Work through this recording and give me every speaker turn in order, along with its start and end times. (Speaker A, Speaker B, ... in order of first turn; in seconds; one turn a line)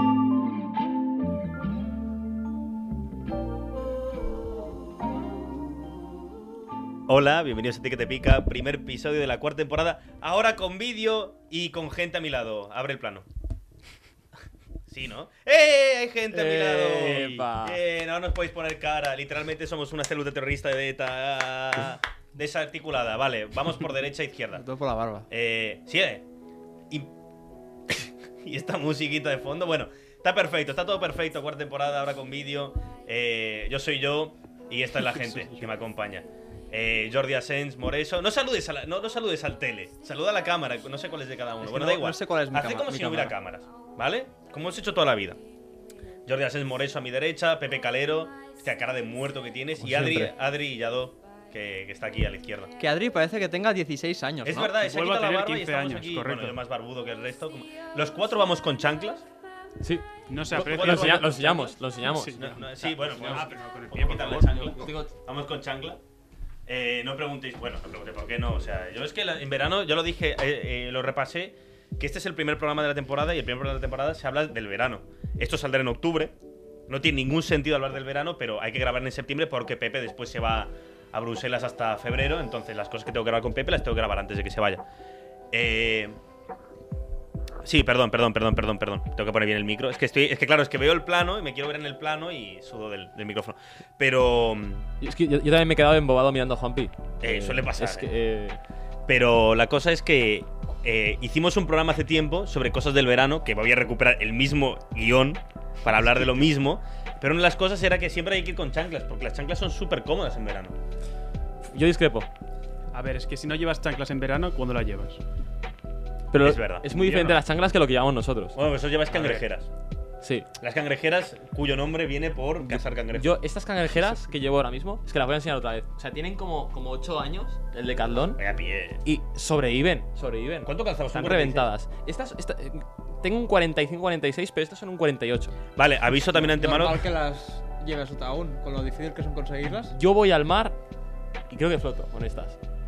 Speaker A: 7.1-13.2
Speaker A: 14.9-24.6
Speaker B: 16.3-17.8
Speaker C: 24.5-25.3
Speaker A: 25.3-26.2
Speaker A: 27.9-45.4
Speaker D: 35.2-35.7
Speaker C: 41.6-43.3
Speaker A: 46.2-52.7
Speaker B: 49.8-50.3
Speaker C: 52.8-54.7
Speaker A: 54.4-59.2
Speaker D: 54.8-56.6
Speaker B: 59.8-62.7
Speaker D: 60.3-64.7
Speaker A: 60.5-61.3
Speaker A: 62.3-66.0
Speaker B: 64.7-65.1
Speaker A: 66.7-76.3
Speaker A: 76.9-84.8
Speaker A: 85.5-86.2
Speaker A: 87.6-94.8
Speaker B: 95.0-98.6
Speaker A: 97.2-98.1
Speaker A: 99.1-110.8
Speaker B: 111.7-112.3
Speaker D: 112.9-115.2
Speaker B: 116.3-118.6
Speaker A: 116.4-117.2
Speaker D: 117.0-117.3
Speaker A: 118.5-119.7
Speaker B: 119.1-119.4
Speaker B: 120.2-120.5
Speaker A: 120.6-123.3
Speaker B: 122.6-128.4
Speaker A: 128.4-129.0
Speaker B: 129.1-135.6
Speaker A: 130.6-131.7
Speaker A: 135.8-137.0
Speaker C: 136.3-139.9
Speaker B: 139.9-140.8
Speaker B: 141.5-142.6